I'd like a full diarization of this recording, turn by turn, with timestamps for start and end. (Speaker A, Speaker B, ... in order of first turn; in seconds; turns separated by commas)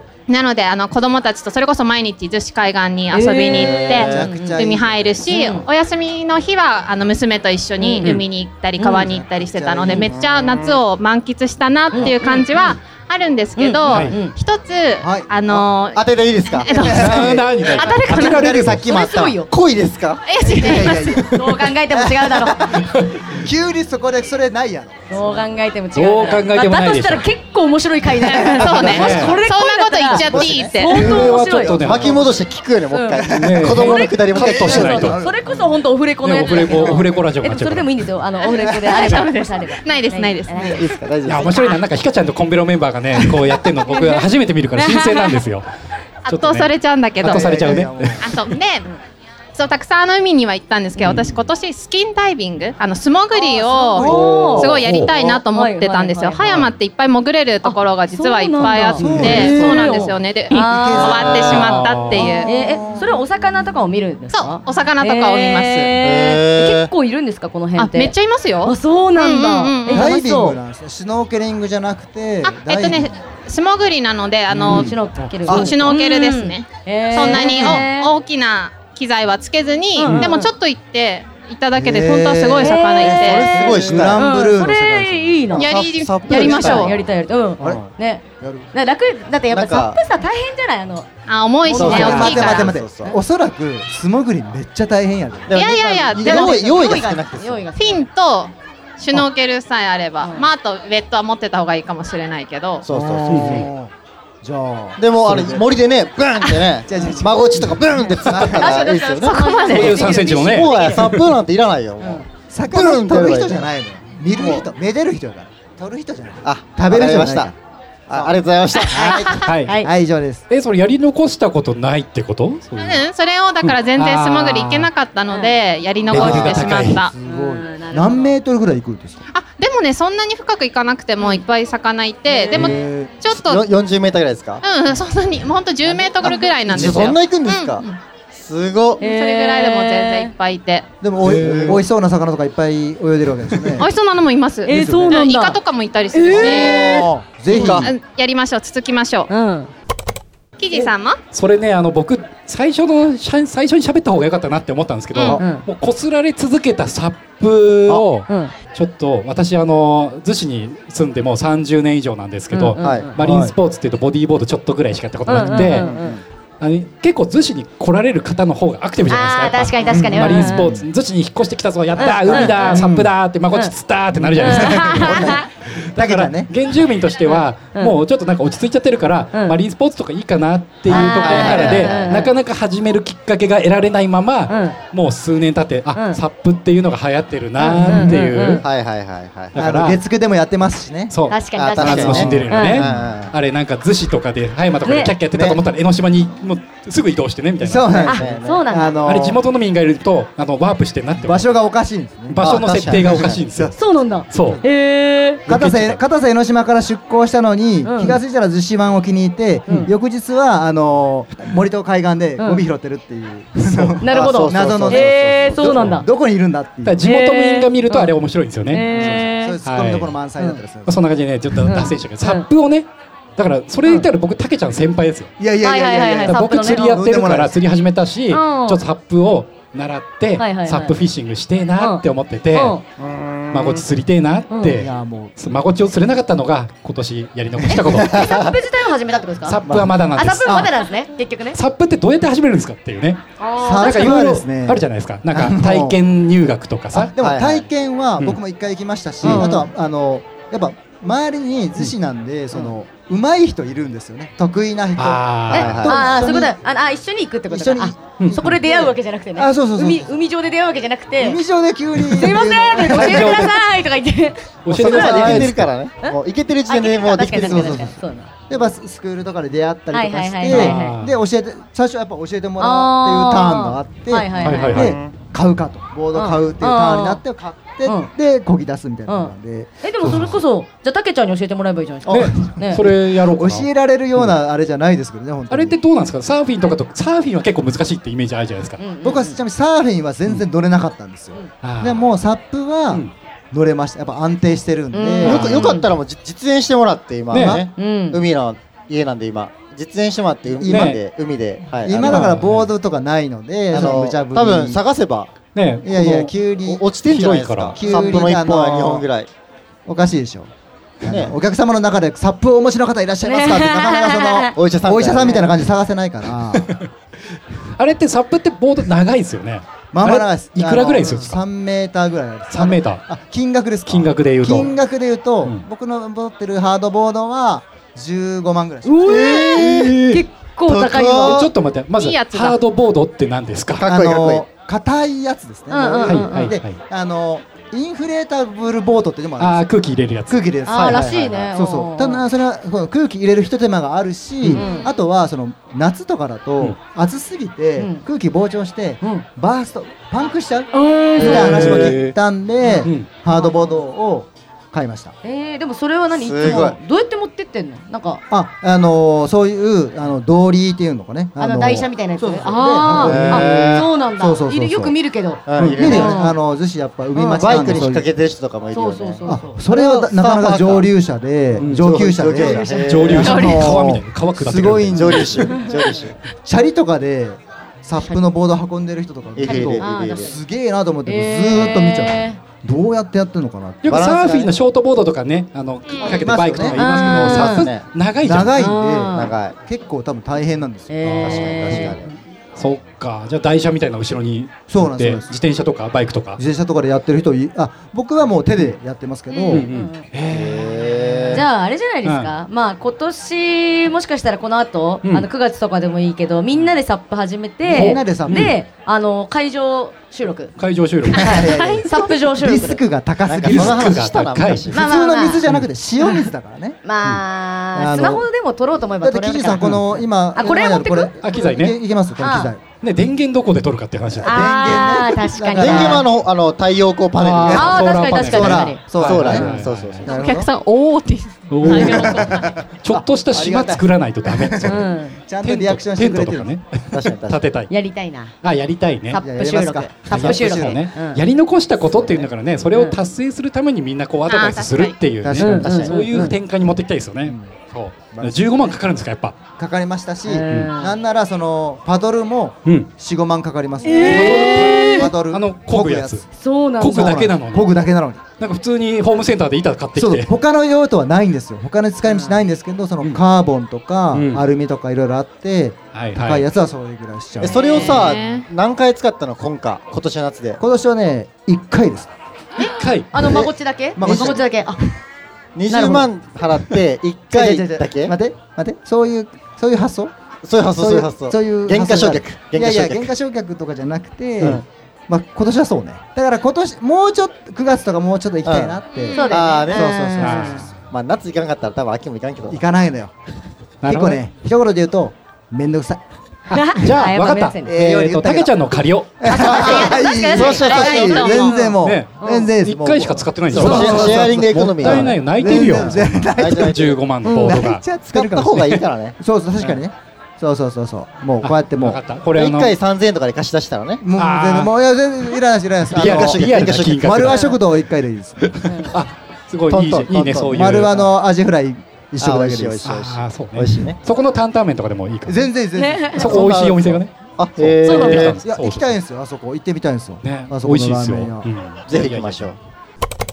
Speaker A: 0.3-18.5, Speaker B: 3.1-4.6, Speaker C: 3.5-4.3, Speaker D: 3.6-5.2, Speaker B: 5.3-5.7, Speaker B: 7.8-8.2, Speaker B: 8.8-9.1, Speaker D: 9.0-10.2, Speaker C: 9.6-10.8, Speaker B: 11.9-12.7, Speaker B: 13.6-14.3, Speaker E: 13.9-14.2, Speaker D: 15.0-15.6, Speaker C: 15.9-17.3, Speaker D: 16.7-19.4, Speaker E: 16.8-18.9, Speaker B: 17.8-19.5, Speaker C: 19.3-20.2, Speaker A: 20.3-21.2, Speaker B: 20.4-22.7, Speaker D: 20.4-25.4, Speaker E: 22.8-23.2, Speaker B: 25.1-31.7, Speaker E: 25.9-27.3, Speaker A: 28.2-31.1, Speaker D: 28.4-29.1, Speaker E: 28.8-29.4, Speaker C: 30.1-35.1, Speaker D: 30.2-30.7, Speaker E: 30.8-32.2, Speaker D: 31.7-32.3, Speaker B: 32.9-33.2, Speaker D: 33.1-35.7, Speaker E: 33.3-35.2, Speaker B: 33.8-41.8, Speaker E: 36.2-38.0, Speaker A: 38.6-40.8, Speaker C: 40.7-41.7, Speaker E: 41.2-45.7, Speaker B: 43.2-45.4, Speaker A: 46.2-47.6, Speaker E: 46.2-48.4, Speaker D: 47.2-48.4, Speaker A: 48.2-48.9, Speaker A: 49.5-62.5, Speaker D: 51.0-51.3, Speaker D: 53.4-55.1, Speaker B: 53.5-56.6, Speaker B: 57.6-61.5, Speaker D: 59.0-60.0, Speaker C: 59.2-59.9, Speaker D: 60.5-63.2, Speaker C: 61.1-61.4, Speaker E: 61.5-62.4, Speaker B: 62.4-70.6, Speaker A: 64.3-66.0, Speaker C: 66.0-66.9, Speaker A: 67.8-70.2, Speaker D: 69.9-73.1, Speaker A: 72.4-83.6, Speaker D: 74.5-74.9, Speaker B: 74.6-78.1, Speaker D: 75.5-76.0, Speaker D: 77.2-77.9, Speaker B: 80.0-80.5, Speaker D: 81.7-85.6, Speaker B: 82.5-91.1, Speaker C: 83.0-84.3, Speaker C: 85.5-87.0, Speaker A: 85.6-86.9, Speaker D: 87.6-87.9, Speaker D: 88.4-88.7, Speaker C: 89.5-90.0, Speaker A: 91.3-92.7, Speaker B: 91.7-93.2, Speaker D: 91.7-96.5, Speaker C: 91.7-93.2, Speaker C: 95.5-97.7, Speaker A: 95.5-96.9, Speaker B: 96.2-98.1, Speaker A: 97.8-102.8, Speaker B: 100.2-100.5, Speaker C: 102.8-103.7, Speaker D: 102.9-105.7, Speaker E: 103.3-103.7, Speaker C: 105.0-109.6, Speaker D: 106.6-108.9, Speaker B: 107.0-107.2, Speaker B: 108.3-111.2, Speaker A: 109.2-110.1, Speaker E: 109.6-111.1, Speaker C: 110.3-113.7, Speaker B: 112.0-112.2, Speaker D: 112.5-117.5, Speaker C: 114.3-114.6, Speaker C: 116.4-117.5, Speaker C: 118.1-119.8, Speaker B: 118.9-119.9, Speaker E: 119.4-119.7, Speaker D: 119.8-120.4, Speaker E: 120.5-123.0, Speaker A: 122.8-127.1, Speaker E: 123.6-124.9, Speaker B: 125.3-125.6, Speaker E: 126.1-127.0, Speaker D: 126.1-129.2, Speaker B: 127.2-128.4, Speaker A: 129.3-133.6, Speaker B: 132.2-132.8, Speaker D: 132.5-133.1, Speaker C: 133.3-134.6, Speaker A: 134.6-138.0, Speaker C: 135.8-139.0, Speaker D: 136.3-137.0, Speaker E: 136.7-137.1, Speaker B: 139.0-140.3, Speaker A: 139.0-140.8, Speaker D: 141.0-143.9, Speaker E: 141.2-141.8, Speaker C: 141.3-141.8, Speaker A: 143.7-146.9, Speaker B: 144.6-145.6, Speaker D: 144.7-145.2, Speaker B: 146.1-147.8, Speaker D: 146.3-147.9, Speaker C: 146.3-147.9, Speaker A: 147.7-149.3, Speaker B: 149.3-149.7, Speaker A: 150.6-151.2, Speaker E: 151.3-165.9, Speaker B: 155.2-155.7, Speaker B: 158.3-158.5, Speaker B: 162.5-163.2, Speaker C: 162.8-163.1, Speaker D: 163.2-163.5, Speaker B: 165.3-166.2, Speaker D: 165.4-166.0, Speaker C: 165.8-166.2, Speaker E: 166.6-188.6, Speaker B: 169.1-170.8, Speaker D: 169.8-170.7, Speaker D: 171.9-173.1, Speaker B: 172.0-172.9, Speaker D: 174.1-176.5, Speaker B: 174.3-175.5, Speaker B: 177.2-177.9, Speaker B: 180.9-182.3, Speaker C: 180.9-182.2, Speaker B: 184.5-184.8, Speaker B: 185.9-186.2, Speaker B: 187.6-188.6, Speaker D: 187.8-188.2, Speaker C: 188.6-189.6, Speaker E: 189.5-190.0, Speaker D: 189.6-191.1, Speaker E: 191.1-198.1, Speaker B: 191.3-192.8, Speaker C: 191.6-193.3, Speaker D: 192.2-193.0, Speaker B: 194.8-195.1, Speaker C: 195.3-195.6, Speaker D: 197.6-199.4, Speaker C: 198.0-198.6, Speaker B: 198.0-199.0, Speaker E: 199.1-201.5, Speaker D: 201.2-203.7, Speaker E: 202.3-203.8, Speaker C: 202.4-203.4, Speaker B: 203.8-205.4, Speaker E: 204.3-204.6, Speaker E: 205.5-206.0, Speaker D: 205.5-217.0, Speaker B: 207.8-208.2, Speaker B: 212.4-212.6, Speaker E: 213.7-213.9, Speaker B: 214.0-216.1, Speaker C: 214.0-215.9, Speaker E: 216.8-220.1, Speaker B: 217.0-218.1, Speaker B: 218.7-219.6, Speaker D: 218.9-221.0, Speaker E: 220.8-225.3, Speaker B: 221.6-222.5, Speaker D: 225.4-227.5, Speaker B: 225.6-226.9, Speaker E: 226.3-232.8, Speaker B: 228.3-228.8, Speaker B: 230.4-231.0, Speaker B: 231.8-232.8, Speaker C: 233.0-233.8, Speaker E: 233.5-238.3, Speaker B: 234.5-234.8, Speaker D: 234.8-235.3, Speaker B: 237.7-239.6, Speaker C: 237.8-238.6, Speaker E: 239.4-240.8, Speaker B: 240.1-241.6, Speaker D: 240.4-240.7, Speaker E: 241.5-243.2, Speaker B: 243.4-244.2, Speaker D: 243.6-245.9, Speaker E: 243.8-247.1, Speaker D: 246.9-256.5, Speaker C: 247.2-247.7, Speaker E: 249.2-249.5, Speaker B: 249.2-249.7, Speaker E: 255.0-255.9, Speaker C: 255.5-256.1, Speaker B: 255.5-261.4, Speaker D: 257.5-260.1, Speaker E: 258.2-258.5, Speaker D: 261.2-263.5, Speaker E: 262.0-263.5, Speaker B: 262.1-268.3, Speaker E: 264.6-265.7, Speaker C: 264.7-267.9, Speaker D: 267.4-268.0, Speaker D: 268.5-280.4, Speaker B: 269.9-271.0, Speaker E: 270.5-271.1, Speaker B: 272.6-274.9, Speaker E: 274.4-274.9, Speaker C: 274.7-275.1, Speaker B: 276.1-277.2, Speaker B: 277.8-278.1, Speaker B: 279.1-282.8, Speaker E: 280.0-280.4, Speaker E: 282.1-284.4, Speaker D: 282.1-285.8, Speaker E: 285.5-288.8, Speaker B: 288.8-289.4, Speaker D: 289.0-295.6, Speaker E: 291.6-292.1, Speaker B: 294.9-295.9, Speaker C: 295.2-302.4, Speaker E: 295.2-295.6, Speaker E: 297.3-297.6, Speaker B: 297.4-298.2, Speaker D: 300.6-301.0, Speaker E: 300.7-301.0, Speaker D: 301.8-304.8, Speaker E: 302.0-302.7, Speaker C: 303.7-305.3, Speaker E: 305.5-306.2, Speaker D: 305.8-306.8, Speaker C: 305.9-309.3, Speaker E: 306.9-307.8, Speaker D: 307.7-309.0, Speaker B: 307.8-308.2, Speaker D: 309.9-310.5, Speaker D: 311.0-316.7, Speaker C: 311.0-311.3, Speaker B: 313.2-314.5, Speaker C: 314.5-315.5, Speaker E: 316.5-316.9, Speaker E: 317.8-321.4, Speaker D: 319.9-329.9, Speaker B: 321.0-321.3, Speaker E: 322.5-323.0, Speaker E: 323.9-324.7, Speaker B: 328.8-331.5, Speaker C: 329.1-330.0, Speaker E: 329.4-330.2, Speaker C: 330.6-331.5, Speaker E: 331.1-333.9, Speaker A: 331.9-332.6, Speaker C: 333.7-334.4, Speaker D: 333.8-339.7, Speaker B: 335.7-336.6, Speaker E: 336.0-336.8, Speaker E: 339.4-340.5, Speaker D: 340.3-355.1, Speaker B: 340.6-342.2, Speaker C: 340.8-341.5, Speaker E: 344.4-344.7, Speaker B: 344.5-344.9, Speaker B: 347.8-348.0, Speaker B: 350.7-351.9, Speaker E: 351.2-352.1, Speaker B: 352.6-353.8, Speaker B: 355.2-358.2, Speaker C: 356.1-356.8, Speaker D: 358.3-364.9, Speaker B: 361.4-366.4, Speaker C: 362.9-363.9, Speaker C: 365.4-366.2, Speaker D: 365.6-368.1, Speaker B: 367.1-367.8, Speaker C: 367.3-370.9, Speaker B: 368.7-369.6, Speaker D: 369.2-375.6, Speaker C: 371.5-373.8, Speaker E: 371.6-375.4, Speaker A: 373.2-373.6, Speaker C: 374.9-376.1, Speaker B: 375.5-375.8, Speaker D: 376.4-384.1, Speaker C: 379.4-380.3, Speaker B: 379.4-380.4, Speaker B: 381.1-382.4, Speaker E: 383.8-388.6, Speaker C: 383.9-384.6, Speaker D: 386.1-386.8, Speaker B: 386.7-387.7, Speaker C: 387.0-387.9, Speaker D: 388.2-391.8, Speaker B: 388.5-389.3, Speaker C: 389.1-389.6, Speaker B: 390.9-392.1, Speaker E: 391.0-392.0, Speaker C: 391.2-392.1, Speaker E: 392.6-396.4, Speaker D: 394.7-395.3, Speaker D: 396.4-399.7, Speaker B: 399.3-400.0, Speaker E: 399.5-401.4, Speaker C: 400.3-401.4, Speaker B: 401.3-410.5, Speaker E: 402.0-402.3, Speaker D: 407.6-408.5, Speaker E: 407.7-408.6, Speaker E: 410.6-411.5, Speaker B: 411.1-412.8, Speaker D: 411.2-414.0, Speaker C: 413.2-414.9, Speaker E: 413.4-414.7, Speaker B: 414.7-415.4, Speaker D: 414.7-416.8, Speaker B: 416.0-416.3, Speaker B: 416.8-421.1, Speaker D: 417.7-418.2, Speaker D: 419.0-422.6, Speaker E: 421.2-421.8, Speaker B: 422.2-422.5, Speaker E: 422.8-424.8, Speaker D: 424.1-426.0, Speaker B: 424.2-426.1, Speaker C: 425.6-427.8, Speaker E: 427.2-430.1, Speaker B: 427.5-429.4, Speaker D: 427.6-429.5, Speaker C: 428.4-430.1, Speaker D: 430.1-430.5, Speaker A: 430.1-431.7, Speaker E: 431.5-434.9, Speaker B: 431.6-432.5, Speaker D: 431.6-436.5, Speaker B: 434.6-435.2, Speaker E: 435.4-437.7, Speaker C: 436.9-437.4, Speaker B: 437.7-438.3, Speaker E: 438.4-439.2, Speaker B: 439.1-441.2, Speaker D: 439.2-440.8, Speaker E: 440.1-449.4, Speaker D: 442.0-442.2, Speaker B: 442.7-443.0, Speaker A: 444.3-445.0, Speaker D: 445.2-446.2, Speaker B: 445.3-446.4, Speaker C: 445.6-446.0, Speaker D: 447.2-447.5, Speaker D: 448.1-448.8, Speaker D: 449.6-456.2, Speaker B: 450.2-450.9, Speaker B: 453.8-455.1, Speaker E: 454.0-456.3, Speaker B: 456.4-457.2, Speaker E: 456.8-457.7, Speaker D: 456.8-458.2, Speaker E: 458.4-460.3, Speaker D: 459.9-467.9, Speaker B: 462.1-462.4, Speaker E: 464.1-464.4, Speaker E: 465.9-466.5, Speaker C: 467.4-470.6, Speaker B: 467.4-468.1, Speaker A: 467.6-468.4, Speaker D: 470.6-472.1, Speaker B: 472.6-474.8, Speaker E: 472.6-473.1, Speaker D: 473.1-474.4, Speaker C: 474.0-474.4, Speaker C: 475.5-478.1, Speaker B: 475.7-476.0, Speaker D: 475.7-476.0, Speaker D: 477.3-480.1, Speaker C: 480.4-483.1, Speaker D: 480.8-490.7, Speaker C: 484.4-484.6, Speaker C: 488.4-490.1, Speaker A: 489.0-489.2, Speaker B: 489.1-490.7, Speaker E: 490.2-490.7, Speaker C: 490.9-492.6, Speaker D: 492.4-493.1, Speaker E: 493.8-494.2, Speaker D: 493.8-496.0, Speaker E: 496.5-499.2, Speaker B: 496.5-497.8, Speaker D: 497.6-498.5, Speaker D: 499.2-506.8, Speaker C: 499.3-501.2, Speaker B: 499.5-502.5, Speaker A: 499.5-501.7, Speaker E: 501.8-507.8, Speaker C: 502.8-507.0, Speaker B: 503.6-504.1, Speaker B: 507.2-507.6, Speaker D: 507.4-512.0, Speaker C: 508.1-509.2, Speaker E: 511.4-512.7, Speaker C: 512.4-514.0, Speaker D: 514.0-518.6, Speaker E: 514.1-514.7, Speaker E: 515.9-517.6, Speaker C: 515.9-517.4, Speaker B: 517.3-517.6, Speaker E: 518.4-521.1, Speaker B: 518.6-518.9, Speaker C: 519.7-520.8, Speaker D: 520.5-522.8, Speaker C: 522.2-524.0, Speaker E: 522.8-525.4, Speaker D: 525.3-526.4, Speaker B: 525.8-526.3, Speaker E: 526.1-529.0, Speaker C: 526.2-528.4, Speaker B: 527.8-528.3, Speaker D: 528.1-531.5, Speaker E: 530.2-532.5, Speaker C: 531.9-532.6